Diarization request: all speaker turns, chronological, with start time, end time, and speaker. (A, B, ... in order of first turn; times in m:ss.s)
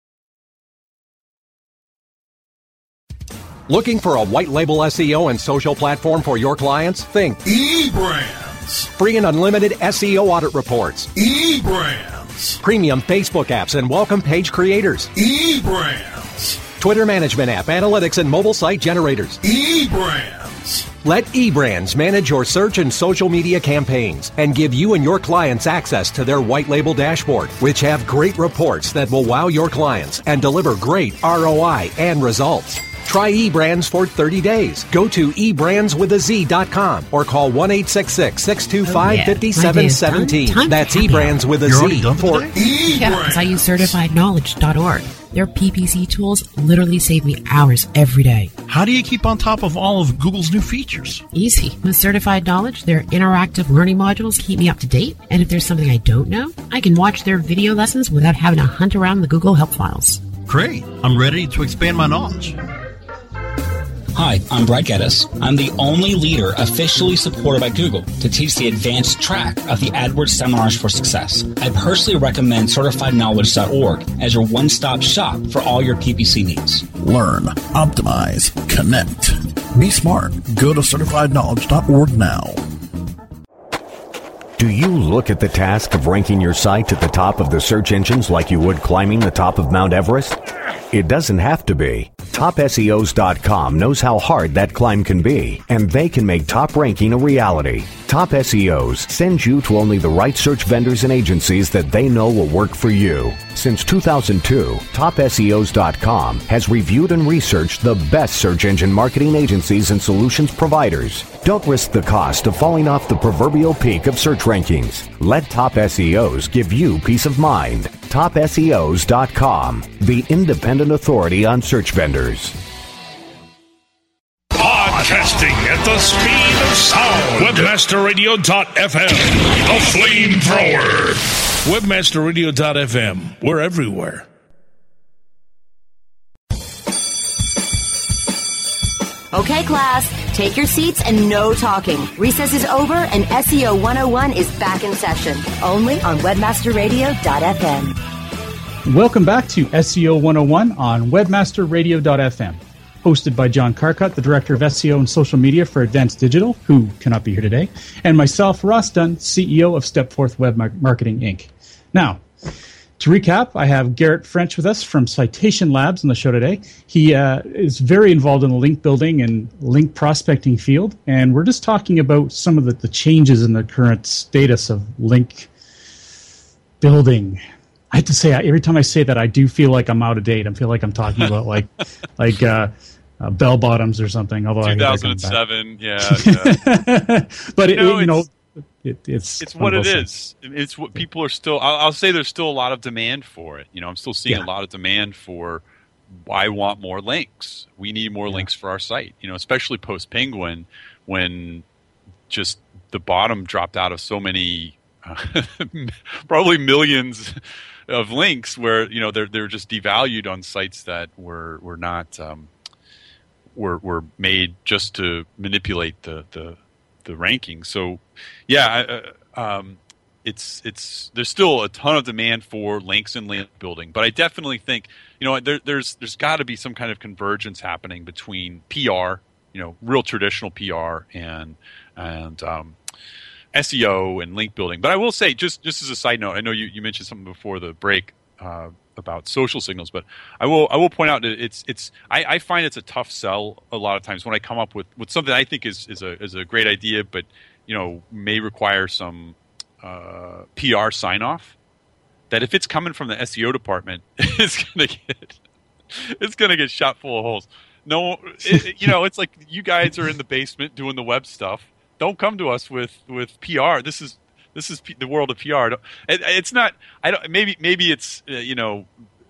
0:03.7-0:07.4 A
0:07.4-0:08.9 B
0:09.0-0:11.1 A
0:11.1-0:12.6 B
0:12.6-0:15.1 A
0:15.1-0:16.7 B
0:16.8-0:19.4 A
0:19.4-0:20.9 B
0:21.0-0:42.5 A
0:38.8-0:41.5 C
0:41.6-0:44.0 B
0:42.9-0:48.5 C
0:48.7-0:51.2 B
0:51.3-1:00.2 C
1:00.5-1:02.5 B
1:04.2-1:16.8 D
1:16.9-1:22.6 B
1:24.6-1:30.4 E
1:30.9-2:02.6 E
2:04.5-2:14.3 F
2:19.3-2:28.0 G
2:28.8-2:42.2 H
2:43.0-2:55.5 H
2:56.8-3:05.4 H
3:04.6-3:06.6 I
3:06.0-3:10.1 H
3:07.7-3:08.2 I
3:09.4-3:21.6 I
3:22.3-3:27.3 I
3:27.9-3:32.5 I
3:33.5-3:52.8 I
3:53.5-4:11.6 I
4:12.3-4:15.4 I
4:15.9-4:28.9 I